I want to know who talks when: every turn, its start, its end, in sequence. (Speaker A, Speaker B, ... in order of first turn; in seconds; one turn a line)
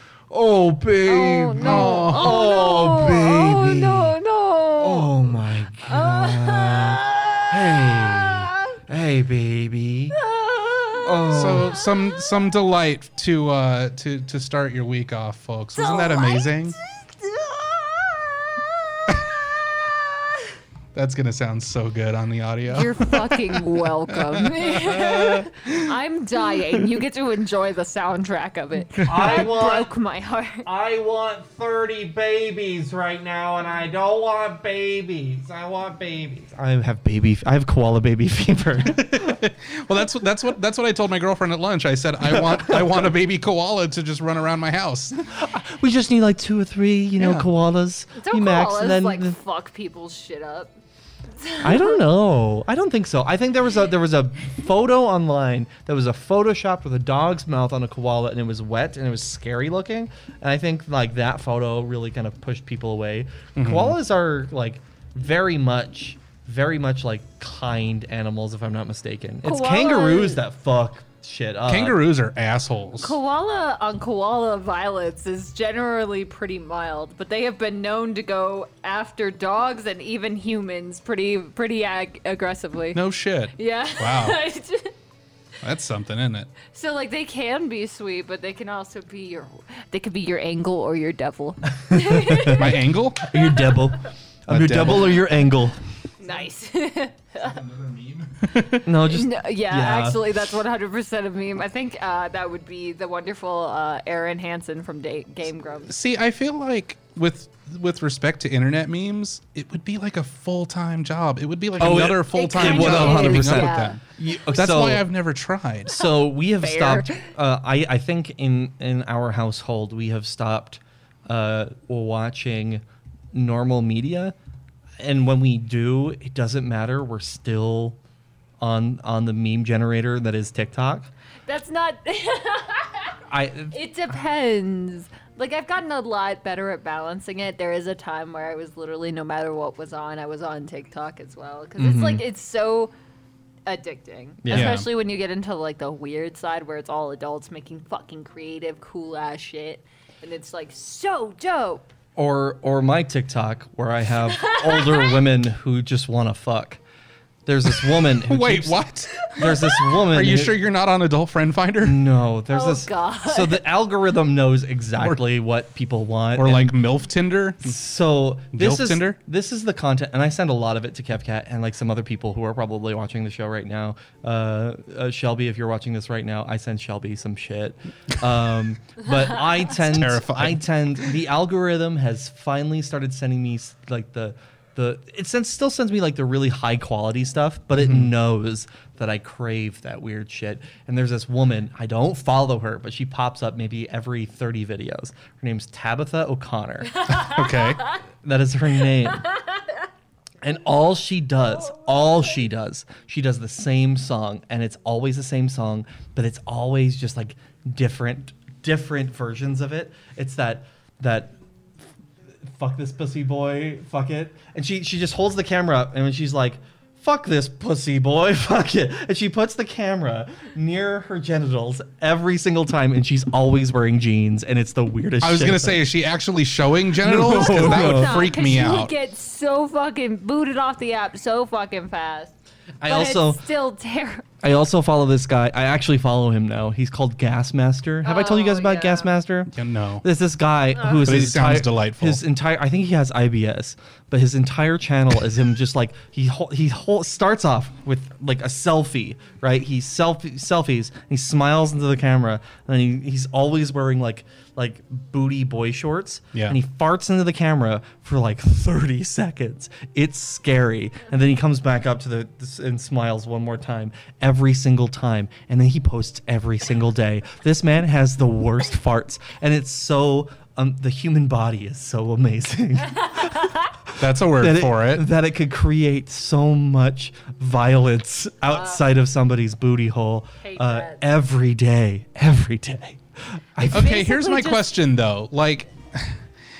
Speaker A: 0.3-4.2
Speaker B: 1.0-5.1
Speaker C: 1.6-2.4
Speaker A: 4.8-10.2
Speaker B: 5.8-8.8
Speaker B: 10.1-12.3
Speaker A: 10.9-11.7
Speaker C: 11.3-16.8
Speaker B: 15.8-20.5
Speaker C: 20.9-25.9
Speaker B: 22.7-30.7
Speaker C: 26.6-26.9
Speaker C: 29.0-29.4
Speaker A: 29.0-29.9
Speaker A: 30.6-39.4
Speaker C: 38.8-45.2
Speaker A: 42.2-43.1
Speaker A: 45.2-49.4
Speaker C: 47.2-47.5
Speaker B: 48.1-50.7
Speaker B: 51.4-52.0
Speaker A: 51.6-72.0
Speaker C: 63.6-64.0
Speaker B: 69.4-70.4
Speaker C: 71.7-73.2
Speaker B: 73.0-83.0
Speaker C: 82.9-84.4
Speaker B: 83.5-84.9
Speaker C: 85.6-86.5
Speaker B: 86.7-92.7
Speaker A: 91.9-92.7
Speaker C: 92.4-93.4
Speaker A: 93.2-95.8
Speaker C: 94.5-95.4
Speaker B: 96.2-97.6
Speaker C: 97.4-98.8
Speaker A: 98.8-100.4
Speaker B: 99.0-105.9
Speaker C: 105.9-116.0
Speaker A: 111.8-115.0
Speaker B: 112.3-114.0
Speaker A: 115.9-124.3
Speaker B: 116.6-117.2
Speaker A: 125.0-128.0
Speaker A: 128.6-131.1
Speaker B: 131.5-133.2
Speaker A: 133.3-133.7
Speaker B: 133.7-142.9
Speaker A: 141.8-142.2
Speaker B: 143.7-151.9
Speaker A: 144.4-144.8
Speaker C: 144.5-144.9
Speaker A: 152.2-156.8
Speaker B: 154.3-155.2
Speaker A: 157.4-160.6
Speaker C: 157.9-159.5
Speaker B: 159.2-159.6
Speaker C: 160.0-162.0
Speaker A: 161.8-166.7
Speaker B: 162.5-163.6
Speaker C: 166.3-167.8
Speaker A: 167.6-197.1
Speaker C: 168.5-169.2
Speaker C: 179.7-180.6
Speaker C: 187.8-188.1
Speaker B: 197.0-198.0
Speaker C: 197.1-197.8
Speaker A: 198.2-199.2
Speaker A: 200.4-211.3
Speaker A: 212.4-225.8
Speaker C: 225.2-228.9
Speaker A: 227.0-228.3
Speaker B: 227.3-232.3
Speaker A: 232.8-233.4
Speaker B: 232.8-234.2
Speaker A: 234.4-239.5
Speaker B: 238.0-239.1
Speaker C: 239.5-240.0
Speaker A: 240.0-283.9
Speaker C: 241.0-242.2
Speaker B: 273.0-273.7
Speaker C: 274.0-275.1
Speaker B: 278.5-278.8
Speaker B: 280.4-281.0
Speaker C: 283.6-286.2
Speaker B: 283.6-284.6